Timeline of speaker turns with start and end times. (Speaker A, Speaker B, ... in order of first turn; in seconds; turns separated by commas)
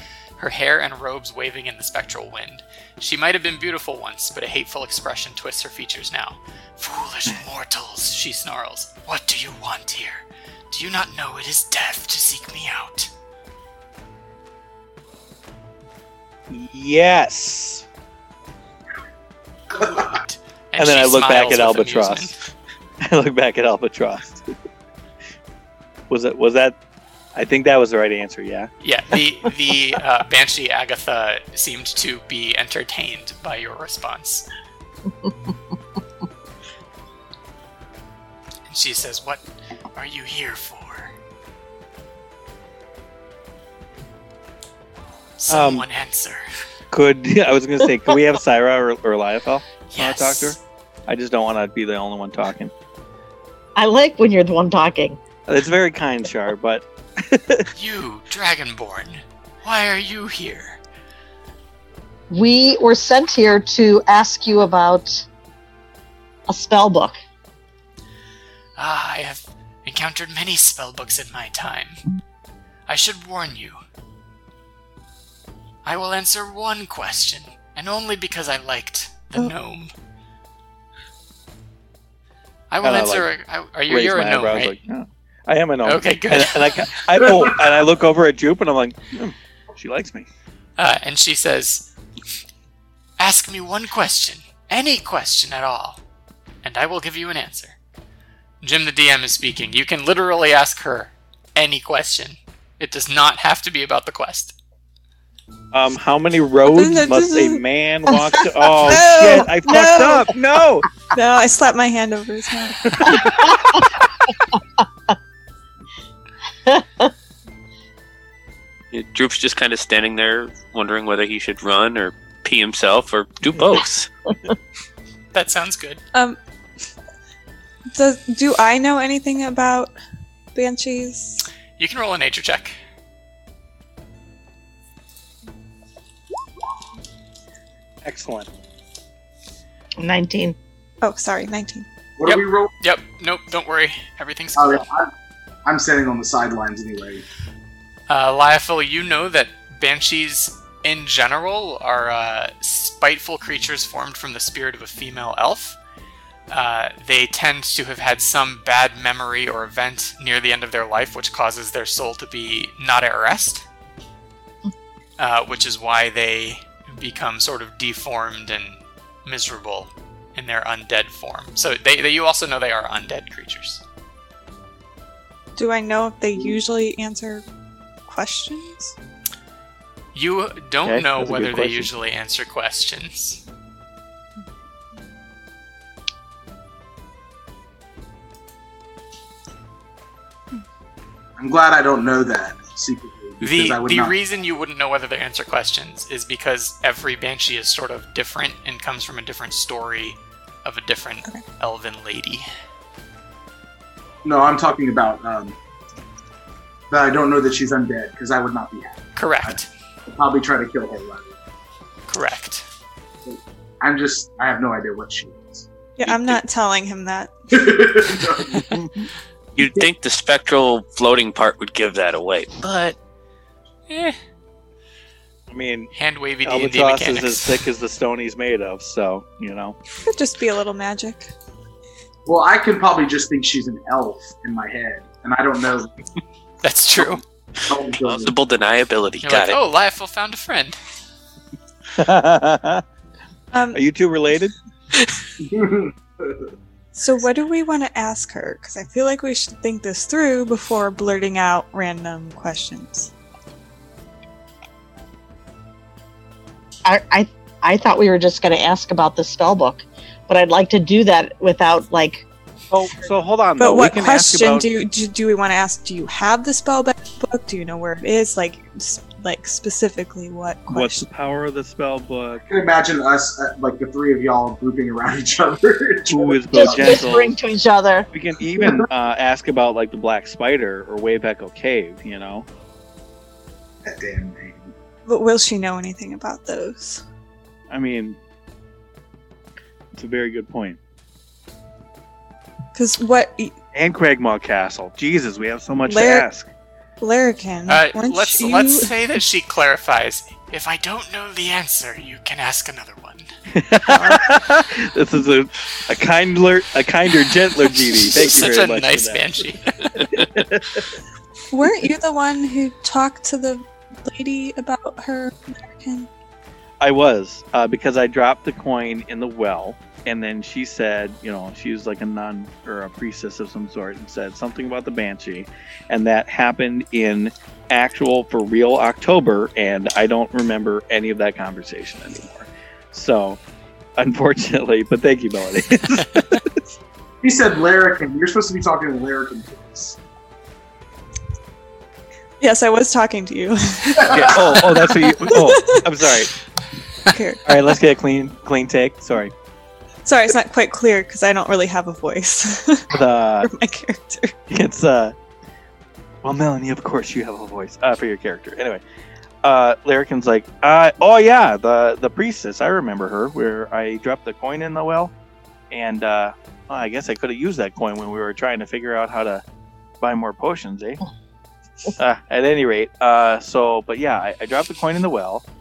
Speaker A: 0.4-13.1, Speaker B: 16.5-17.9, Speaker A: 19.7-22.4, Speaker B: 20.8-22.3, Speaker B: 23.0-24.5, Speaker B: 26.1-26.8, Speaker B: 27.4-28.7, Speaker A: 28.8-34.5, Speaker A: 38.7-41.1, Speaker A: 45.4-46.4, Speaker B: 45.5-45.9, Speaker B: 46.9-52.7, Speaker A: 49.9-50.6, Speaker C: 53.8-55.2, Speaker B: 55.5-57.7, Speaker A: 57.7-60.8, Speaker C: 62.3-65.2, Speaker C: 66.5-67.1, Speaker A: 68.8-72.0, Speaker A: 72.9-73.8, Speaker A: 75.8-79.9, Speaker A: 82.7-84.8, Speaker B: 82.8-83.3, Speaker B: 83.9-90.3, Speaker A: 85.8-86.9, Speaker A: 90.8-91.9, Speaker A: 93.2-96.0, Speaker A: 96.6-97.8, Speaker A: 98.6-104.6, Speaker B: 105.7-110.9, Speaker D: 106.7-107.6, Speaker D: 108.8-110.3, Speaker D: 111.1-113.3, Speaker C: 113.3-113.7, Speaker C: 116.7-117.1, Speaker E: 118.9-124.1, Speaker A: 125.3-126.0, Speaker D: 127.9-129.9, Speaker D: 130.5-131.4, Speaker A: 131.8-132.8, Speaker B: 138.0-138.5, Speaker C: 140.0-140.6, Speaker D: 141.0-141.9, Speaker F: 142.2-142.7, Speaker A: 142.2-144.9, Speaker F: 144.5-145.1, Speaker F: 145.6-147.2, Speaker A: 148.1-155.8, Speaker A: 156.5-163.6, Speaker A: 165.2-173.8, Speaker D: 175.6-177.4, Speaker D: 178.1-178.9, Speaker A: 180.1-183.4, Speaker B: 180.8-181.9, Speaker F: 191.4-194.2, Speaker A: 193.4-202.4, Speaker F: 204.2-205.6, Speaker F: 206.9-211.3, Speaker A: 209.2-209.7, Speaker A: 212.1-212.6, Speaker F: 213.2-215.7, Speaker D: 216.0-217.3, Speaker F: 217.5-218.7, Speaker B: 218.7-219.1, Speaker E: 219.6-222.9, Speaker A: 223.9-224.2, Speaker B: 225.5-225.9, Speaker A: 225.9-227.7, Speaker B: 226.4-229.8, Speaker D: 230.0-231.3, Speaker F: 232.2-236.0, Speaker A: 236.6-237.2, Speaker F: 237.7-238.4, Speaker E: 237.9-239.6, Speaker A: 239.2-240.8, Speaker B: 241.9-242.8, Speaker D: 243.5-243.8, Speaker B: 243.7-244.5, Speaker F: 245.4-246.5, Speaker D: 246.9-253.1, Speaker C: 256.9-262.2, Speaker B: 262.7-264.7, Speaker D: 263.6-271.0, Speaker B: 270.7-272.4, Speaker F: 272.5-277.1, Speaker B: 276.1-277.4, Speaker C: 276.5-278.1, Speaker B: 278.1-282.5, Speaker F: 278.6-278.9, Speaker F: 283.8-284.7, Speaker D: 285.1-287.0, Speaker B: 287.7-288.2, Speaker B: 289.9-290.8, Speaker D: 292.7-293.5, Speaker B: 293.7-296.5, Speaker D: 295.9-296.3, Speaker D: 297.0-298.9, Speaker A: 297.7-303.3, Speaker B: 303.5-309.3, Speaker D: 303.9-304.4, Speaker A: 307.7-310.0, Speaker E: 310.0-310.2, Speaker B: 310.0-310.9, Speaker D: 311.5-316.1, Speaker B: 316.8-333.4, Speaker B: 334.0-336.6, Speaker F: 337.2-340.0, Speaker D: 342.4-345.9, Speaker F: 344.0-344.4, Speaker B: 344.1-346.3, Speaker D: 347.1-347.8, Speaker B: 347.4-349.3, Speaker D: 350.0-354.3, Speaker B: 352.9-353.5, Speaker B: 354.5-355.1, Speaker B: 356.2-358.8, Speaker B: 359.4-365.1, Speaker B: 365.7-369.4, Speaker B: 370.0-371.0, Speaker B: 371.9-375.4